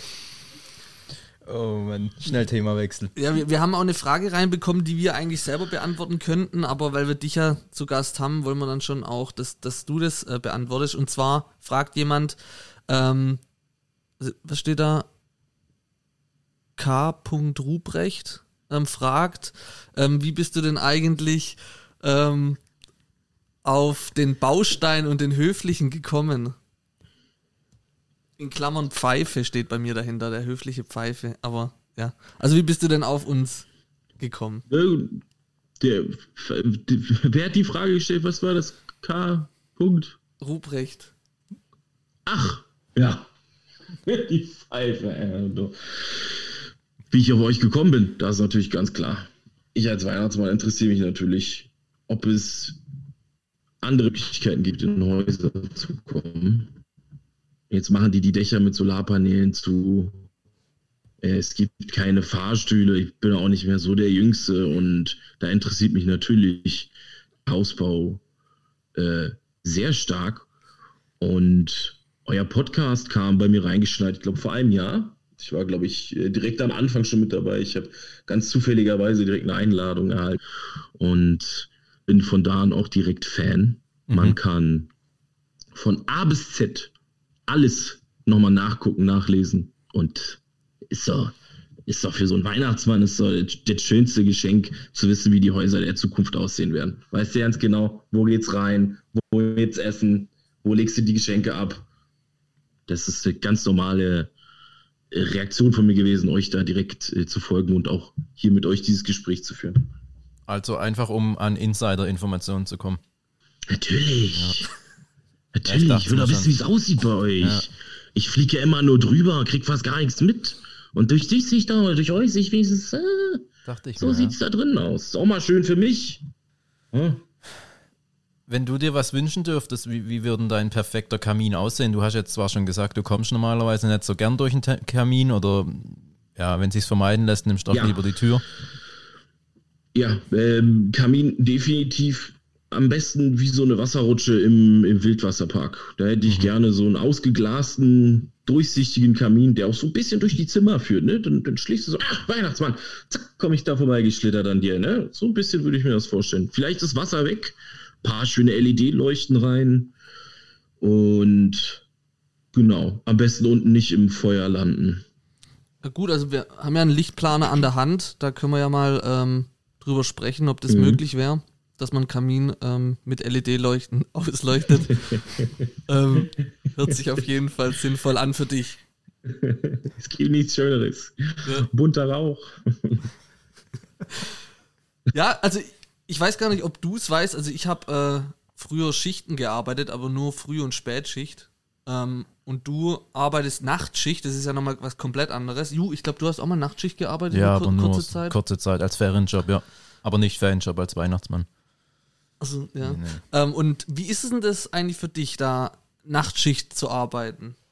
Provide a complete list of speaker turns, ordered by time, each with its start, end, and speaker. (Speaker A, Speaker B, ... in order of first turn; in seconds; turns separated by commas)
Speaker A: 1.4-3.1, Speaker B: 3.1-13.4, Speaker B: 14.2-15.1, Speaker B: 16.8-22.6, Speaker B: 23.6-26.6, Speaker B: 28.4-33.6, Speaker B: 34.2-34.6, Speaker C: 34.7-35.2, Speaker C: 35.8-40.2, Speaker B: 40.4-41.1, Speaker C: 42.2-43.3, Speaker C: 44.0-46.5, Speaker C: 47.1-52.8, Speaker C: 53.8-56.7, Speaker C: 57.7-60.1, Speaker C: 61.2-66.9, Speaker C: 67.4-68.2, Speaker C: 68.9-70.5, Speaker C: 71.2-80.4, Speaker C: 81.0-84.9, Speaker A: 84.1-84.3, Speaker C: 85.7-86.9, Speaker C: 87.5-91.3, Speaker C: 91.9-101.8, Speaker C: 102.9-104.3, Speaker C: 105.1-109.9, Speaker A: 110.5-113.0, Speaker C: 113.7-114.7, Speaker A: 114.4-114.7, Speaker C: 115.5-123.5, Speaker A: 115.7-116.6, Speaker A: 117.4-117.7, Speaker A: 123.7-124.3, Speaker C: 124.0-126.2, Speaker C: 126.9-127.2, Speaker A: 128.5-138.4, Speaker C: 137.7-138.0, Speaker C: 139.9-159.9, Speaker C: 160.8-161.8, Speaker C: 162.5-165.0, Speaker B: 165.8-175.0, Speaker C: 170.7-171.0, Speaker C: 174.9-175.7, Speaker B: 175.9-178.8, Speaker C: 179.2-183.1, Speaker B: 185.1-198.3, Speaker A: 197.3-201.4, Speaker B: 202.4-207.6, Speaker A: 202.8-203.2